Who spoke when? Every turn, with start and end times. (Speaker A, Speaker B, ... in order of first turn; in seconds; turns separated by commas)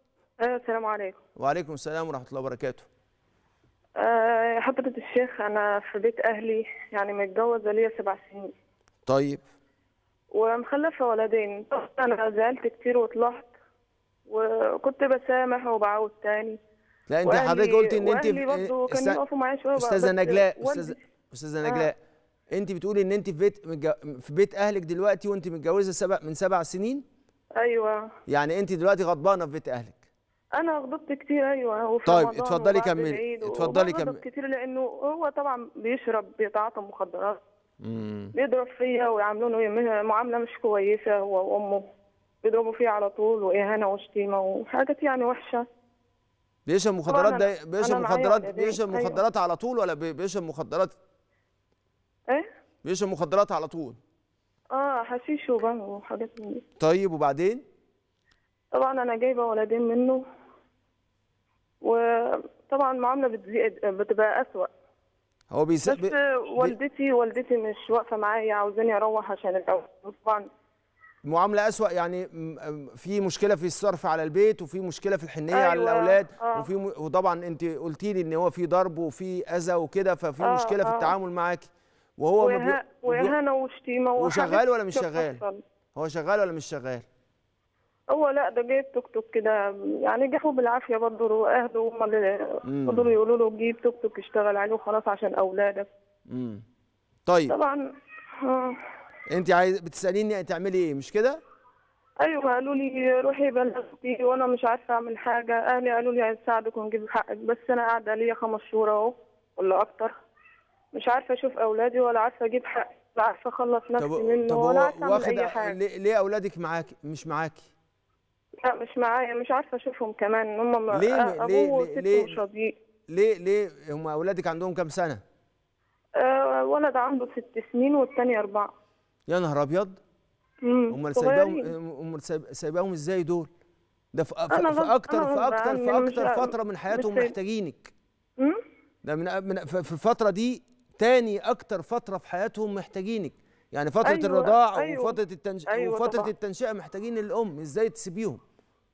Speaker A: 0.4-1.2, Speaker B: 1.4-2.9, Speaker A: 4.0-8.5, Speaker B: 9.1-9.4, Speaker A: 10.3-13.5, Speaker A: 14.3-16.6, Speaker B: 17.1-19.2, Speaker A: 17.2-21.0, Speaker B: 19.8-22.0, Speaker A: 21.6-21.9, Speaker B: 22.5-27.0, Speaker A: 27.6-28.1, Speaker B: 28.3-30.1, Speaker A: 30.6-37.4, Speaker B: 32.1-34.2, Speaker B: 37.8-38.3, Speaker A: 38.4-41.8, Speaker A: 42.4-45.6, Speaker B: 46.7-51.0, Speaker A: 47.1-49.2, Speaker B: 52.8-54.0, Speaker A: 54.7-56.6, Speaker B: 56.8-57.6, Speaker A: 58.7-60.2, Speaker A: 61.8-64.7, Speaker B: 65.5-66.8, Speaker A: 65.9-70.5, Speaker B: 71.2-83.3, Speaker A: 75.5-76.7, Speaker A: 80.4-81.1, Speaker A: 82.4-85.6, Speaker B: 84.2-85.4, Speaker B: 86.0-87.0, Speaker A: 88.1-95.9, Speaker B: 92.7-93.1, Speaker B: 96.3-96.6, Speaker B: 97.3-97.5, Speaker A: 97.5-97.8, Speaker A: 98.4-98.8, Speaker B: 99.3-101.4, Speaker A: 102.2-110.1, Speaker A: 110.9-115.8, Speaker B: 114.0-117.7, Speaker A: 118.6-122.8, Speaker B: 120.9-122.4, Speaker B: 123.1-125.2, Speaker A: 126.2-128.7, Speaker B: 129.3-130.0, Speaker A: 130.6-131.7, Speaker B: 130.9-133.5, Speaker B: 134.1-137.9, Speaker A: 134.5-137.3, Speaker B: 139.0-148.4, Speaker A: 144.0-145.2, Speaker A: 145.7-146.3